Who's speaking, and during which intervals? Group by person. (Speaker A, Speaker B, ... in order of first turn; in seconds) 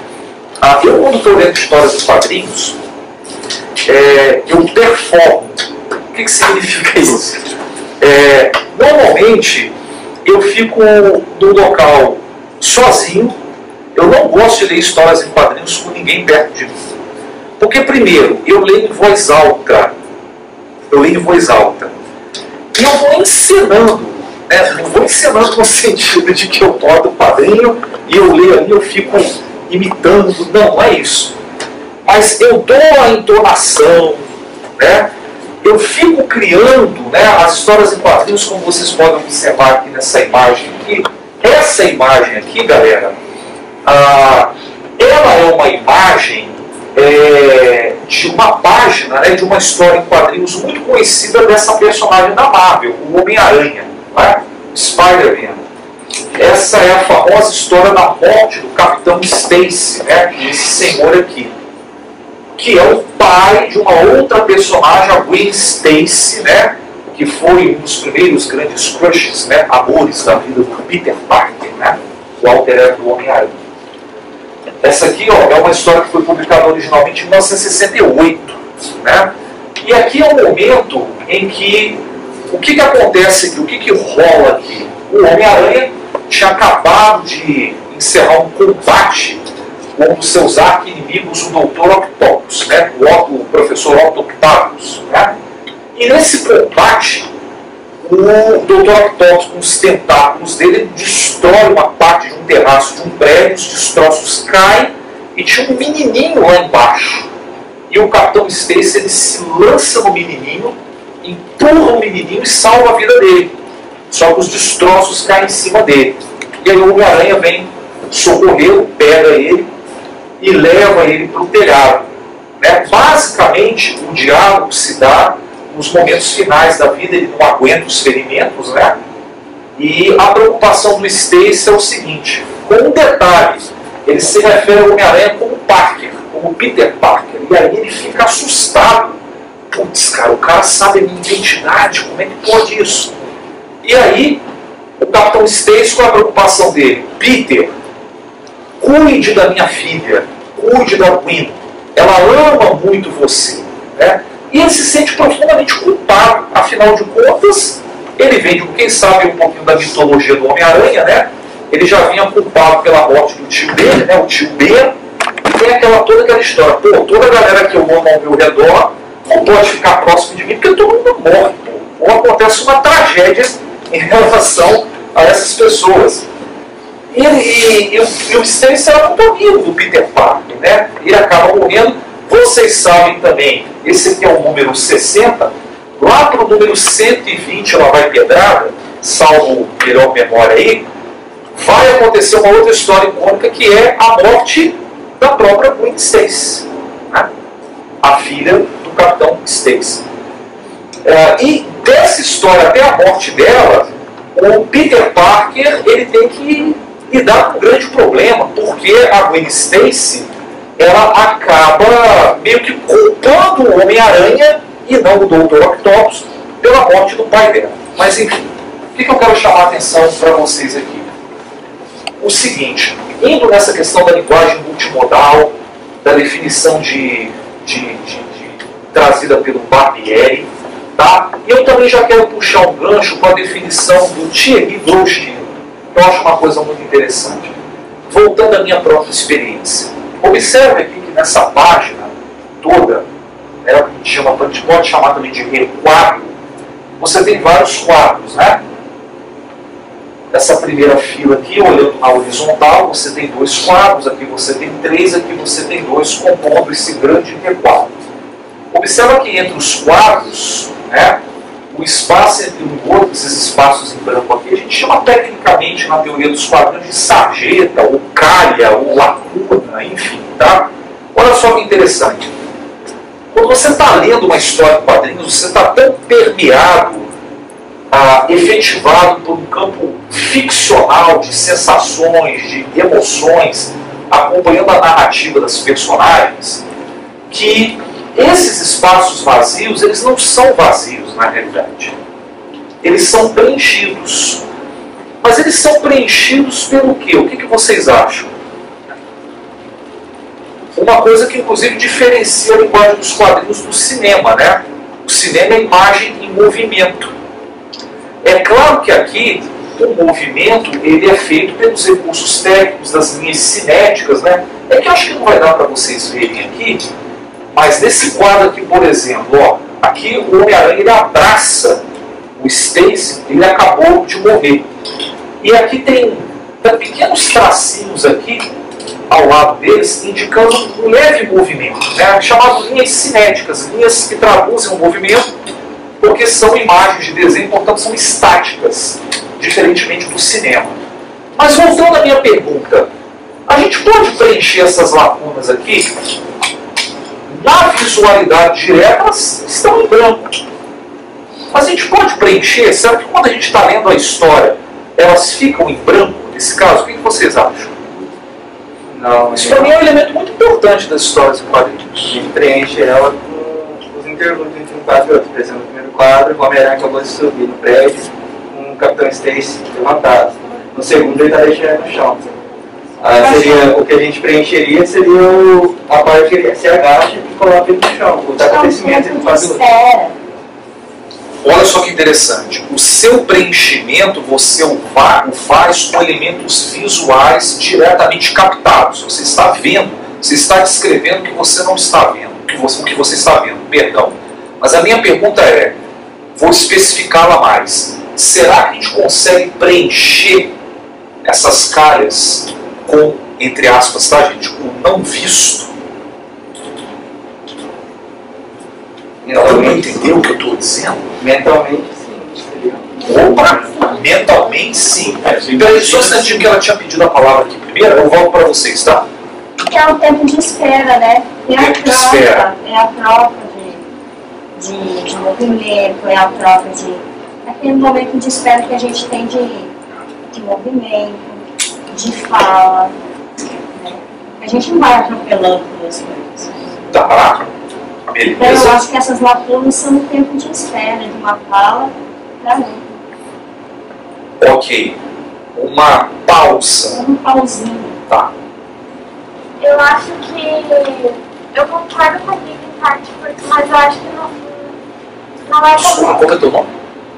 Speaker A: 0.6-2.8, 3.9-7.4, 8.0-13.4, 13.9-16.9, 17.6-19.9, 20.9-21.9, 22.7-31.4, 32.0-35.1, 35.6-43.2, 43.9-55.6, 56.4-61.5, 62.6-73.6, 74.8-89.4, 90.0-95.3, 96.0-97.3, 98.0-107.3, 107.9-113.5, 114.1-119.7, 120.4-122.1, 122.6-129.0, 129.8-139.2, 139.7-143.2, 143.8-144.4, 145.0-147.7, 148.8-164.9, 165.5-176.2, 177.1-190.9, 191.6-197.3, 198.0-200.1, 201.1-221.1, 222.2-237.5, 238.1-243.1, 243.6-246.4, 247.0-248.6, 250.3-257.9, 258.7-272.3, 273.3-277.1, 277.9-286.6, 287.3-291.9, 292.8-294.4, 295.2-298.3, 300.8-307.1, 308.2-316.9, 317.5-321.8, 322.4-324.7, 325.4-328.5, 329.1-335.3, 336.0-340.8, 341.4-342.9, 343.5-345.9, 347.3-350.4, 351.5-357.8, 359.3-362.1, 381.4-395.8, 396.4-400.5, 401.2-405.7, 409.3-411.1, 413.0-419.1, 421.5-422.5, 436.9-437.4, 438.1-438.8, 444.4-445.0, 445.6-447.1, 455.7-456.7
Speaker B: 358.9-359.7, 362.1-372.3, 373.0-379.6, 409.2-409.8, 411.2-413.7, 415.3-416.1
Speaker C: 373.2-373.6, 378.4-380.2, 419.6-423.8, 424.6-429.7, 430.3-432.9, 433.7-436.9, 438.4-443.1, 446.9-448.0
Speaker D: 449.6-454.7, 455.5-456.3